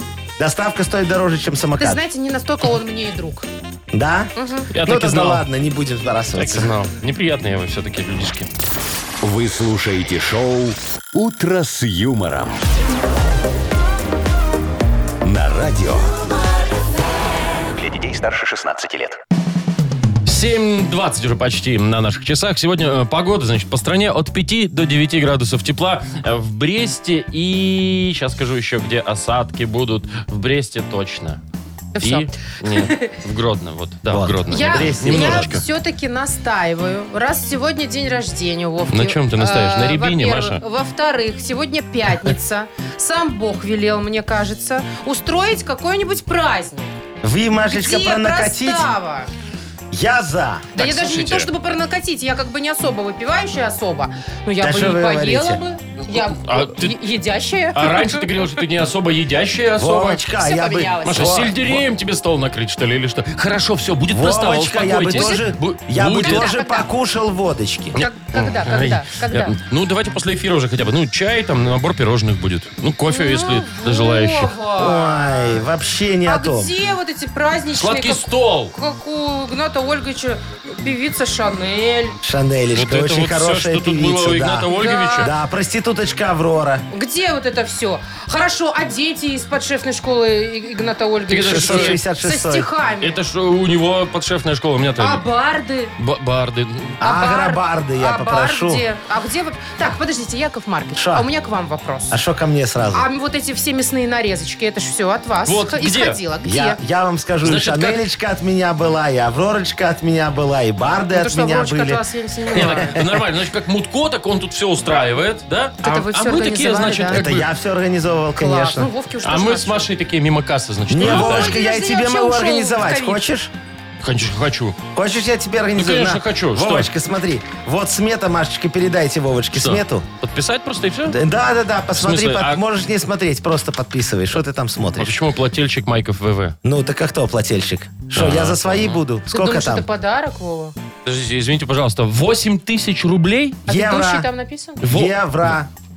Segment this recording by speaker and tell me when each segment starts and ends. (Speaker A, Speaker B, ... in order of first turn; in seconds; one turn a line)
Speaker A: 0.4-2.0
Speaker B: 1.8-3.5
Speaker A: 3.9-6.7
Speaker B: 4.4-4.7
Speaker C: 4.7-5.5
Speaker C: 6.4-8.5
Speaker D: 9.2-12.6
Speaker D: 15.2-16.1
Speaker D: 17.7-19.2
Speaker C: 20.3-31.4
Speaker B: 32.0-33.1
Speaker C: 32.0-35.6
Speaker A: 34.1-35.5
Speaker B: 34.5-46.9
Speaker C: 38.9-40.6
Speaker A: 47.2-48.9
Speaker B: 47.7-49.3
Speaker A: 49.9-50.8
Speaker B: 50.8-58.3
Speaker C: 50.8-51.5
Speaker A: 54.6-55.6
Speaker C: 56.2-57.0
Speaker C: 57.7-60.2
Speaker A: 59.8-61.8
Speaker B: 60.3-61.5
Speaker C: 61.0-66.5
Speaker A: 64.1-68.0
Speaker B: 65.1-65.5
Speaker B: 66.2-66.9
Speaker C: 68.0-74.5
Speaker B: 68.0-69.5
Speaker B: 73.1-75.7
Speaker A: 74.8-76.7
Speaker B: 76.2-82.2
Speaker C: 77.8-78.8
Speaker A: 82.2-86.8
Speaker C: 82.7-85.3
Speaker B: 84.7-85.3
Speaker B: 86.9-93.2
Speaker C: 91.3-92.0
Speaker A: 91.4-92.7
Speaker C: 93.0-95.2
Speaker B: 95.0-95.9
Speaker C: 96.0-97.0
Speaker A: 97.0-98.8
Speaker B: 97.0-102.2
Speaker A: 101.0-101.3
Speaker A: 102.1-103.1
Speaker B: 102.9-106.8
Speaker C: 105.5-106.2
Speaker A: 106.4-113.2
Speaker C: 107.4-108.0
Speaker B: 111.1-113.0
Speaker C: 112.5-117.5
Speaker B: 115.8-117.2
Speaker A: 117.1-118.9
Speaker B: 118.4-119.9
Speaker C: 119.2-121.5
Speaker A: 120.9-123.5
Speaker B: 121.0-123.3
Speaker C: 124.0-124.8
Speaker A: 125.0-130.1
Speaker C: 125.8-126.9
Speaker C: 129.6-131.2
Speaker A: 131.1-135.2
Speaker C: 132.0-132.6
Speaker C: 135.0-136.6
Speaker A: 136.6-139.9
Speaker C: 138.1-139.0
Speaker B: 139.3-140.8
Speaker C: 141.1-143.6
Speaker A: 143.7-144.3
Speaker B: 143.7-144.8
Speaker C: 144.8-145.2
Speaker A: 144.8-145.7